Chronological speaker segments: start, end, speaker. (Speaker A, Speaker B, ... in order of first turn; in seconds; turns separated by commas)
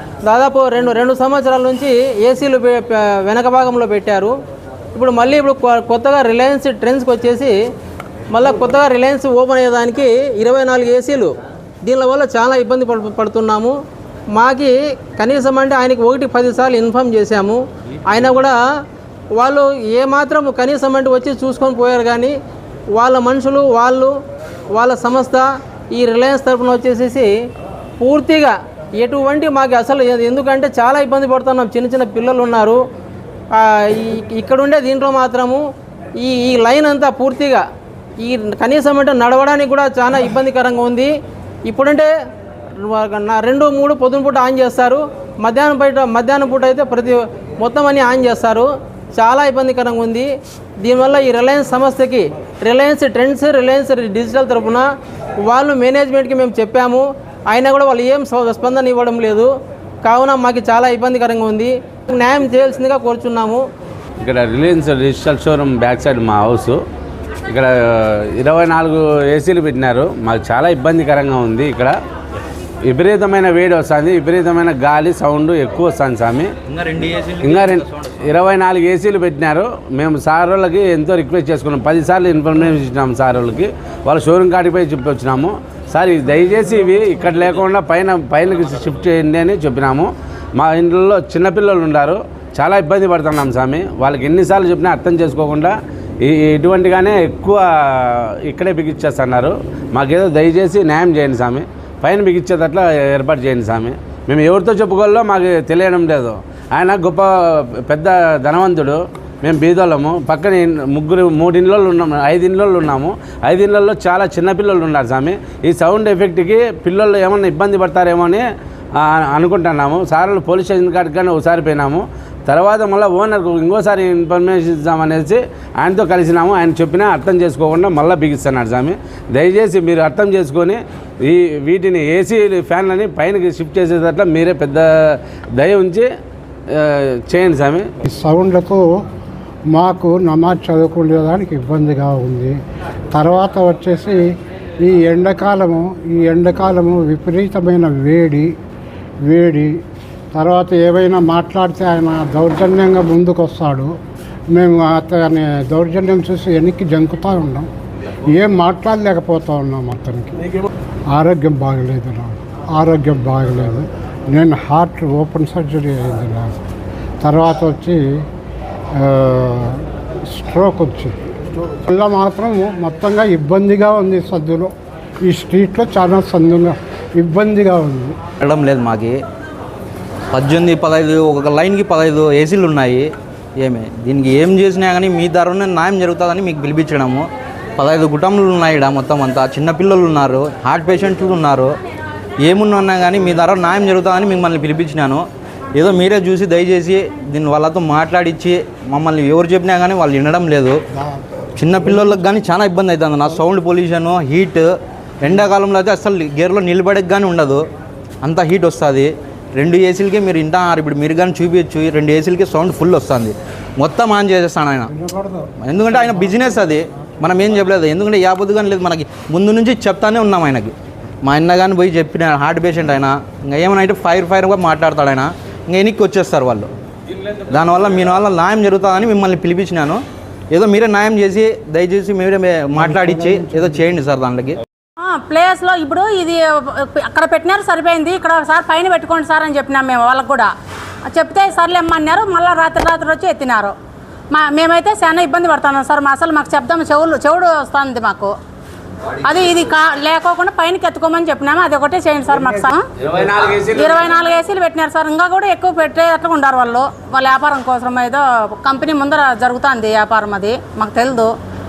Speaker A: 0.2-4.3, Speaker A: 4.9-7.5, Speaker A: 8.3-11.3, Speaker A: 11.8-13.7, Speaker A: 14.3-18.6, Speaker A: 19.4-22.3, Speaker A: 22.9-24.1, Speaker A: 24.7-27.3, Speaker A: 28.0-32.8, Speaker A: 33.5-35.6, Speaker A: 36.2-37.6, Speaker A: 38.2-41.1, Speaker A: 41.6-42.1, Speaker A: 42.8-50.3, Speaker A: 50.8-54.9, Speaker A: 55.5-59.5, Speaker A: 60.0-63.6, Speaker B: 64.2-66.8, Speaker B: 67.5-71.9, Speaker B: 72.9-76.5, Speaker C: 76.7-78.2, Speaker B: 77.4-107.3, Speaker B: 107.8-118.4, Speaker B: 119.0-136.1, Speaker B: 136.7-137.9, Speaker D: 138.0-138.8, Speaker D: 139.7-142.5, Speaker D: 143.1-144.2, Speaker D: 144.8-148.5, Speaker D: 149.2-149.8, Speaker D: 150.3-153.9, Speaker D: 154.5-157.7, Speaker D: 158.2-160.5, Speaker D: 161.1-166.5, Speaker D: 167.2-168.2, Speaker D: 169.0-171.1, Speaker D: 171.8-174.7, Speaker D: 175.2-178.2, Speaker C: 178.4-179.2, Speaker C: 180.3-183.1, Speaker C: 183.6-191.7, Speaker C: 192.4-195.2, Speaker C: 195.8-200.8, Speaker C: 201.6-207.6, Speaker C: 208.2-214.9, Speaker D: 215.0-215.5, Speaker C: 215.6-226.7, Speaker C: 227.3-234.6, Speaker D: 232.8-233.9, Speaker E: 235.0-240.5, Speaker E: 241.1-243.7, Speaker E: 244.3-248.3, Speaker E: 249.1-252.8, Speaker B: 253.0-254.1, Speaker E: 253.7-261.3